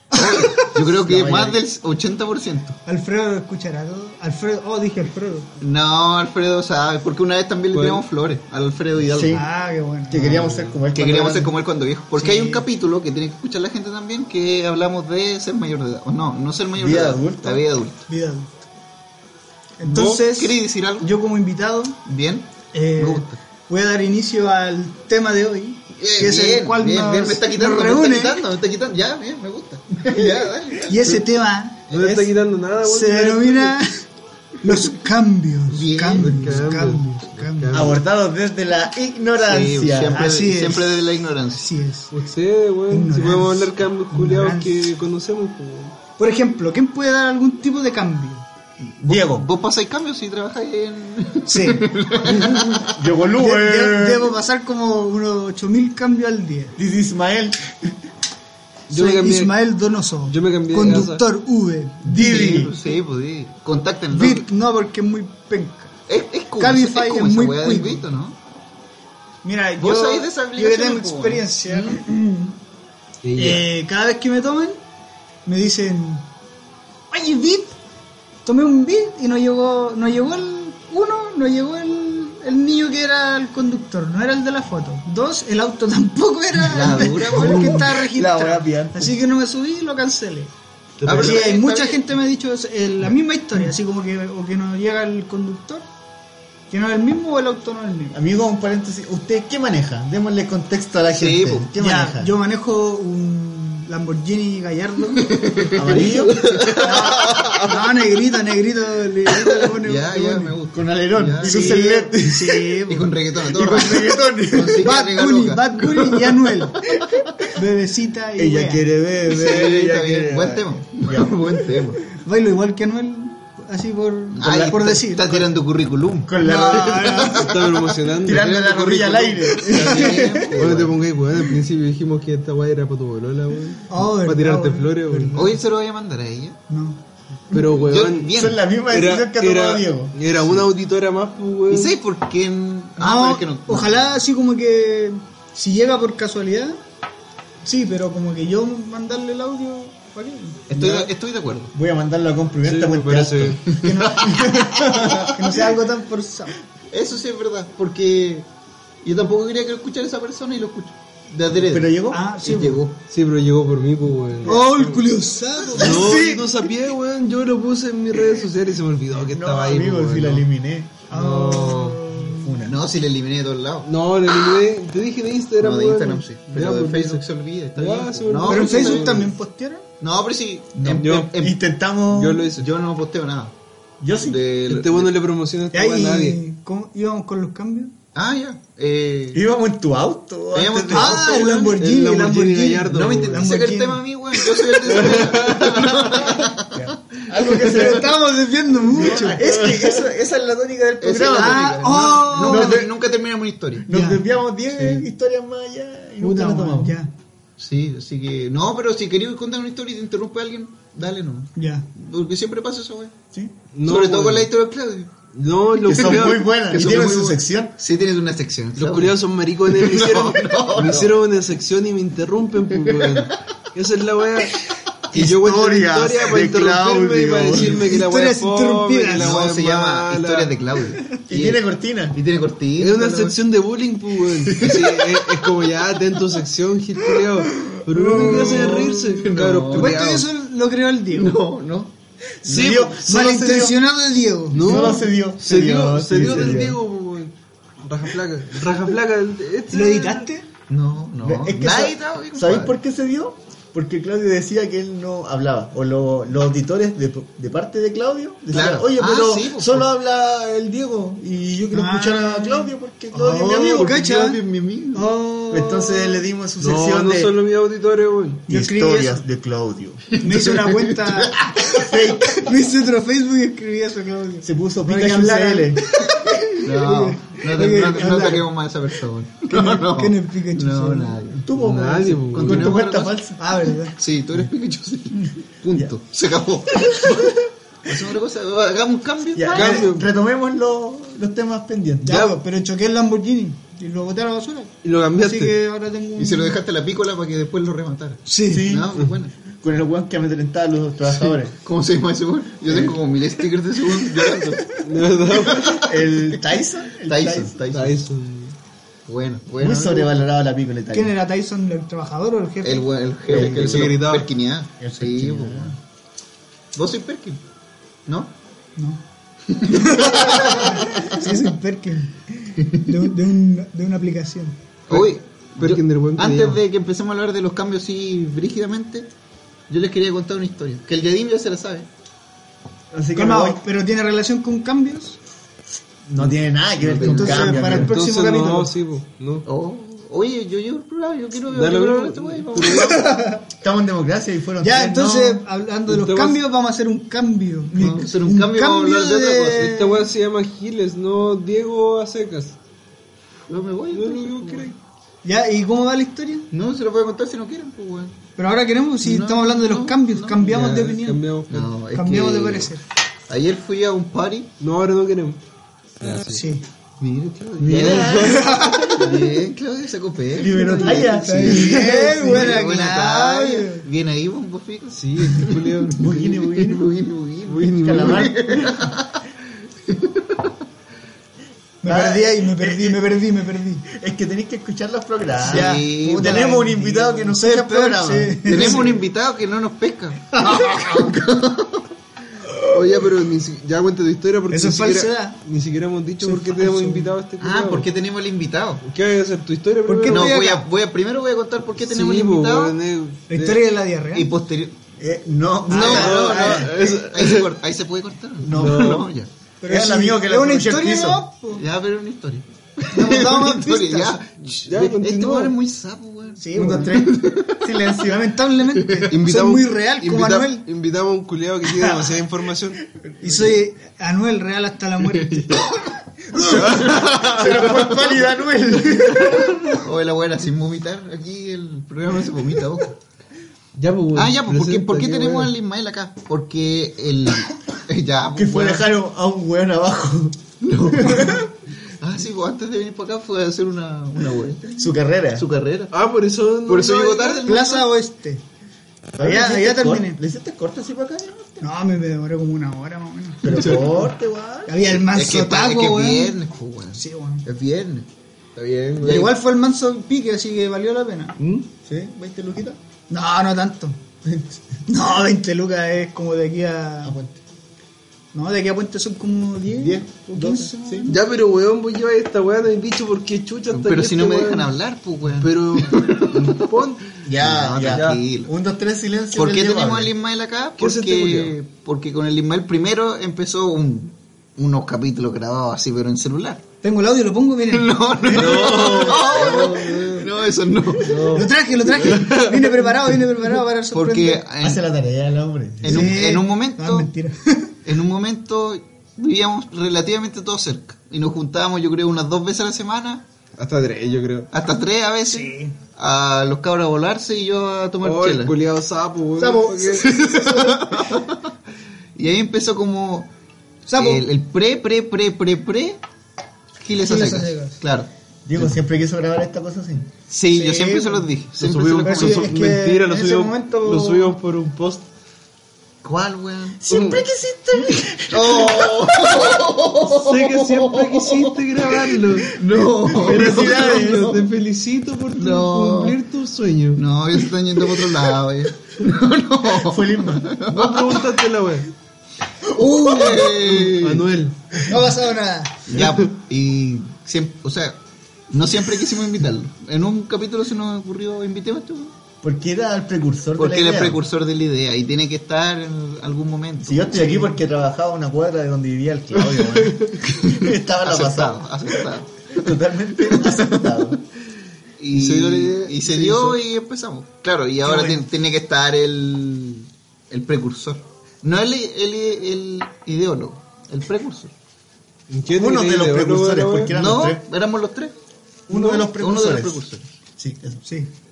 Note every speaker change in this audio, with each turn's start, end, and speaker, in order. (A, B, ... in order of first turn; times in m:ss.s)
0:00.1-0:00.7 A
0:00.2-0:02.8 B
0:00.8-0:01.6 C
0:02.8-0:05.5 A
0:05.6-0:09.4 B
0:07.7-0:08.0 D
0:09.0-0:09.5 C
0:09.3-0:10.3 A
0:10.1-0:11.5 C
0:10.1-0:10.8 D
0:10.9-0:18.1 B
0:12.2-0:12.6 A
0:16.8-0:17.6 C
0:18.1-0:18.6 A
0:19.8-0:22.0 A
0:19.9-0:21.1 B
0:22.0-0:23.4 B
0:22.7-0:28.4 A
0:26.0-0:31.2 B
0:30.1-0:30.4 C
0:30.9-0:31.8 A
0:31.9-0:33.8 D
0:31.9-0:32.3 C
0:32.8-0:34.0 A
0:34.6-0:37.9 A
0:35.7-0:36.6 B
0:36.2-0:38.0 D
0:37.7-0:40.2 C
0:39.4-0:41.7 B
0:40.1-0:42.1 A
0:42.1-0:45.9 D
0:42.9-0:44.9 A
0:46.2-0:48.4 A
0:48.8-0:53.0 B
0:49.0-0:49.5 C
0:51.4-0:51.9 A
0:52.2-0:54.3 C
0:53.4-0:56.8 A
0:56.8-0:58.0 C
0:58.9-0:59.6 D
0:58.9-1:02.7 A
1:00.2-1:01.2 D
1:02.0-1:02.7 C
1:02.1-1:04.5 B
1:04.1-1:05.9 A
1:06.1-1:08.4 B
1:06.6-1:08.0 A
1:09.4-1:12.6 A
1:09.8-1:12.0 B
1:13.2-1:13.6 D
1:13.4-1:14.8 A
1:15.4-1:16.2 A
1:17.1-1:17.8 A
1:18.4-1:30.5 A
1:26.7-1:27.9 B
1:27.3-1:29.2 C
1:31.0-1:31.4 D
1:31.0-1:32.0 B
1:31.1-1:35.8 A
1:36.7-1:38.2 A
1:38.1-1:42.3 C
1:41.1-1:41.7 B
1:41.8-1:45.3 A
1:45.2-1:47.7 B
1:45.7-1:46.9 C
1:46.8-1:50.5 A
1:49.7-1:52.1 B
1:50.7-1:52.8 C
1:51.4-1:53.1 A
1:52.9-1:56.7 B
1:53.4-1:54.9 C
1:54.8-1:56.8 A
1:57.5-1:58.8 A
1:58.4-2:01.6 C
1:59.3-2:02.0 B
2:02.2-2:05.5 A
2:04.3-2:11.0 B
2:06.2-2:07.4 C
2:06.4-2:07.4 A
2:07.4-2:15.4 D
2:08.2-2:10.6 C
2:13.9-2:15.6 A
2:15.3-2:16.6 B
2:16.7-2:17.0 A
2:17.5-2:22.0 D
2:17.5-2:20.2 C
2:17.7-2:18.6 B
2:21.7-2:24.2 B
2:23.0-2:26.8 A
2:27.6-2:30.6 A
2:30.7-2:31.7 B
2:30.7-2:31.1 C
2:31.7-2:35.4 C
2:32.6-2:33.7 D
2:33.8-2:35.3 B
2:33.8-2:36.5 A
2:36.9-2:38.4 B
2:39.0-2:43.0 B
2:41.6-2:42.2 C
2:42.1-2:42.8 A
2:43.1-2:45.0 D
2:44.4-2:46.2 A
2:45.8-2:50.4 D
2:45.8-2:46.5 C
2:49.2-2:51.0 C
2:51.1-2:52.6 A
2:51.1-2:52.0 D
2:52.1-2:52.8 C
2:52.6-2:54.6 B
2:53.8-2:57.2 D
2:55.6-2:59.3 B
2:57.8-2:59.3 D
2:58.4-2:59.8 A
3:00.0-3:01.6 B
3:00.7-3:02.5 C
3:00.9-3:01.4 D
3:02.1-3:02.7 D
3:02.6-3:03.5 B
3:04.0-3:04.4 C
3:04.2-3:05.1 B
3:04.7-3:06.4 D
3:05.7-3:07.9 A
3:08.1-3:09.4 B
3:09.3-3:11.4 C
3:10.5-3:11.8 B
3:10.9-3:14.0 A
3:11.3-3:13.5 D
3:12.9-3:17.0 B
3:14.8-3:16.4 D
3:16.7-3:18.1 C
3:17.3-3:19.4 A
3:17.7-3:18.0 B
3:18.8-3:21.7 C
3:19.4-3:19.8 D
3:21.0-3:23.9 B
3:21.2-3:22.8 A
3:22.4-3:22.9 C
3:23.8-3:27.0 C
3:23.9-3:24.2 A
3:26.2-3:27.1 A
3:27.6-3:33.1 B
3:31.6-3:31.8 A
3:33.7-3:34.5 D
3:33.8-3:35.1 B
3:35.3-3:37.2 D
3:35.8-3:37.8 C
3:35.8-3:41.1 B
3:38.8-3:50.5 D
3:42.7-3:43.3 B
3:45.1-3:47.9 C
3:47.7-3:49.3 A
3:49.2-3:53.4 B
3:51.3-3:52.2 C
3:52.8-4:00.3 D
3:54.6-3:55.0 B
3:57.9-3:58.9 C
3:58.0-4:00.0 B
3:59.7-4:01.4 A
4:01.1-4:01.9 B
4:02.4-4:03.8 C
4:02.5-4:02.8 B
4:02.5-4:02.8 D
4:02.8-4:04.9 A
4:04.5-4:10.3 D
4:04.5-4:06.8 C
4:06.1-4:06.6 B
4:09.7-4:10.5 A
4:10.7-4:12.8 B
4:11.2-4:23.9 C
4:18.5-4:19.9 B
4:21.7-4:24.4 A
4:23.3-4:25.1 B
4:24.9-4:26.2 A
4:25.5-4:27.3 C
4:26.6-4:28.4 D
4:28.5-4:29.2 A
4:28.5-4:30.1 C
4:30.2-4:38.5 A
4:30.2-4:31.3 B
4:31.7-4:32.5 C
4:34.4-4:35.9 C
4:36.6-4:41.4 B
4:39.5-4:41.2 A
4:41.4-4:43.4 C
4:41.6-4:42.8 D
4:42.3-4:43.3 B
4:43.4-4:43.9 A
4:43.9-4:50.0 B
4:46.9-4:47.4 C
4:49.4-4:52.3 C
4:49.5-4:50.1 D
4:52.0-4:56.6 A
4:52.1-4:52.4 D
4:54.8-4:55.6 D
4:56.2-4:59.3 B
4:58.3-4:58.7 A
4:58.5-4:59.0 C
4:59.6-5:01.5 C
5:01.2-5:04.7 B
5:02.7-5:03.0 C
5:04.8-5:06.0 D
5:05.3-5:05.9 B
5:05.7-5:07.6 C
5:07.0-5:08.0 B
5:07.7-5:08.5 D
5:09.1-5:10.2 B
5:09.6-5:11.1 C
5:10.9-5:12.9 A
5:12.6-5:15.8 B
5:13.3-5:14.0 C
5:13.3-5:14.3 D
5:14.8-5:15.8 C
5:16.7-5:17.4 B
5:18.1-5:18.3 B
5:19.5-5:21.2 B
5:19.6-5:24.6 A
5:24.9-5:29.1 B
5:24.9-5:26.6 D
5:29.7-5:31.9 B
5:32.9-5:33.6 C
5:33.1-5:35.2 A
5:36.0-5:37.9 C
5:36.8-5:37.9 B
5:37.0-5:38.7 A
5:37.7-5:39.4 D
5:39.4-5:43.0 B
5:41.5-5:43.0 D
5:42.6-5:43.4 A
5:43.6-5:45.4 C
5:44.6-5:50.0 A
5:45.9-5:46.4 D
5:47.7-5:49.8 B
5:49.6-5:52.6 D
5:53.5-5:54.7 B
5:53.9-5:54.8 D
5:55.2-5:56.5 A
5:56.5-5:58.2 B
5:58.4-6:01.2 A
5:59.0-6:00.4 B
6:00.4-6:01.7 D
6:01.5-6:02.7 B
6:01.9-6:02.8 A
6:03.3-6:04.5 B
6:04.6-6:05.4 D
6:06.0-6:06.4 D
6:06.3-6:06.6 A
6:07.0-6:19.2 B
6:07.6-6:09.1 C
6:07.7-6:08.1 D
6:07.8-6:09.2 A
6:10.4-6:12.7 C
6:10.6-6:13.8 A
6:14.9-6:16.0 D
6:15.9-6:16.8 C
6:17.4-6:18.7 D
6:17.7-6:18.7 C
6:19.9-6:20.5 B
6:21.8-6:23.8 A
6:21.8-6:23.1 C
6:23.8-6:28.8 C
6:25.4-6:26.5 B
6:25.4-6:28.9 A
6:28.4-6:31.8 B
6:30.3-6:31.1 A
6:32.7-6:37.9 D
6:34.5-6:35.4 A
6:36.2-6:37.1 A
6:37.4-6:38.8 B
6:38.8-6:40.3 D
6:39.9-6:40.7 A
6:40.1-6:42.8 B
6:41.8-6:43.6 D
6:43.3-6:44.3 A
6:44.1-6:44.8 B
6:45.0-6:46.8 C
6:45.7-6:49.3 B
6:45.7-6:47.5 D
6:45.9-6:46.6 A
6:48.4-6:49.1 C
6:48.5-6:49.1 D
6:49.6-6:51.6 A
6:49.6-6:51.2 C
6:51.5-6:57.7 B
6:52.9-6:54.2 A
6:54.6-6:55.5 D
6:56.4-6:56.9 A
6:56.5-6:58.4 C
6:57.8-7:00.7 A
6:59.1-7:02.8 D
7:01.7-7:02.2 A
7:03.2-7:06.6 A
7:03.2-7:03.5 C
7:05.3-7:05.6 B
7:06.3-7:09.8 C
7:06.4-7:08.2 B
7:06.5-7:07.5 D
7:09.7-7:13.0 B
7:13.8-7:15.5 D
7:14.1-7:18.9 B
7:18.3-7:21.3 C
7:20.6-7:24.8 B
7:24.7-7:25.4 C
7:25.4-7:25.9 B
7:25.9-7:27.4 D
7:26.7-7:27.9 B
7:27.4-7:28.4 A
7:29.1-7:31.7 C
7:29.2-7:30.2 A
7:31.6-7:33.7 A
7:33.4-7:34.8 C
7:33.5-7:34.1 D
7:34.7-7:36.4 A
7:35.0-7:38.1 B
7:37.0-7:37.4 A
7:38.6-7:39.3 D
7:39.0-7:39.3 B
7:39.0-7:41.6 A
7:41.8-7:42.8 C
7:43.1-7:44.0 A
7:44.2-7:44.6 C
7:44.9-7:47.2 A
7:47.0-7:47.4 C
7:48.3-7:51.2 A
7:49.7-7:51.1 C
7:51.1-7:54.7 D
7:53.7-7:56.7 B
7:55.4-7:57.2 D
7:57.2-8:00.1 C
7:57.4-7:58.5 B
7:57.8-7:58.2 D
7:59.3-8:06.6 B
8:00.8-8:01.5 D
8:06.8-8:07.9 A
8:07.7-8:11.5 B
8:08.2-8:09.2 C
8:08.3-8:10.3 D
8:10.9-8:13.2 D
8:11.3-8:14.4 A
8:13.9-8:14.8 B
8:14.6-8:16.2 C
8:15.8-8:17.1 B
8:15.8-8:17.7 A
8:17.8-8:23.2 B
8:23.6-8:24.5 D
8:24.5-8:28.6 B
8:25.3-8:25.7 A
8:28.0-8:30.2 D
8:29.4-8:30.2 A
8:30.0-8:31.4 B
8:32.2-8:33.3 B
8:33.9-8:34.2 A
8:34.0-8:36.0 B
8:36.8-8:38.1 B
8:37.0-8:37.8 A
8:38.4-8:40.1 C
8:40.3-8:42.6 B
8:40.5-8:41.3 A
8:41.6-8:45.1 D
8:42.0-8:44.4 A
8:46.0-8:46.9 B
8:46.8-8:49.6 C
8:46.9-8:47.2 D
8:48.3-8:54.5 B
8:50.0-8:52.6 D
8:53.1-8:54.3 C
8:53.1-8:57.0 D
8:55.4-8:56.2 B
8:56.9-9:01.3 B
8:59.8-9:00.5 C
9:00.7-9:01.9 D
9:02.7-9:04.3 B
9:02.8-9:03.4 C
9:03.3-9:04.6 D
9:04.8-9:05.8 A
9:05.9-9:08.0 B
9:05.9-9:06.3 D
9:08.5-9:12.1 B
9:12.4-9:14.2 C
9:13.6-9:17.5 B
9:16.8-9:24.2 C
9:19.6-9:20.1 D
9:20.3-9:24.1 B
9:25.0-9:34.5 B
9:25.1-9:26.6 D
9:35.3-9:36.9 D
9:35.5-9:37.4 C
9:36.9-9:38.1 B
9:38.7-9:39.8 C
9:38.7-9:39.0 D
9:38.9-9:40.1 B
9:40.4-9:40.8 C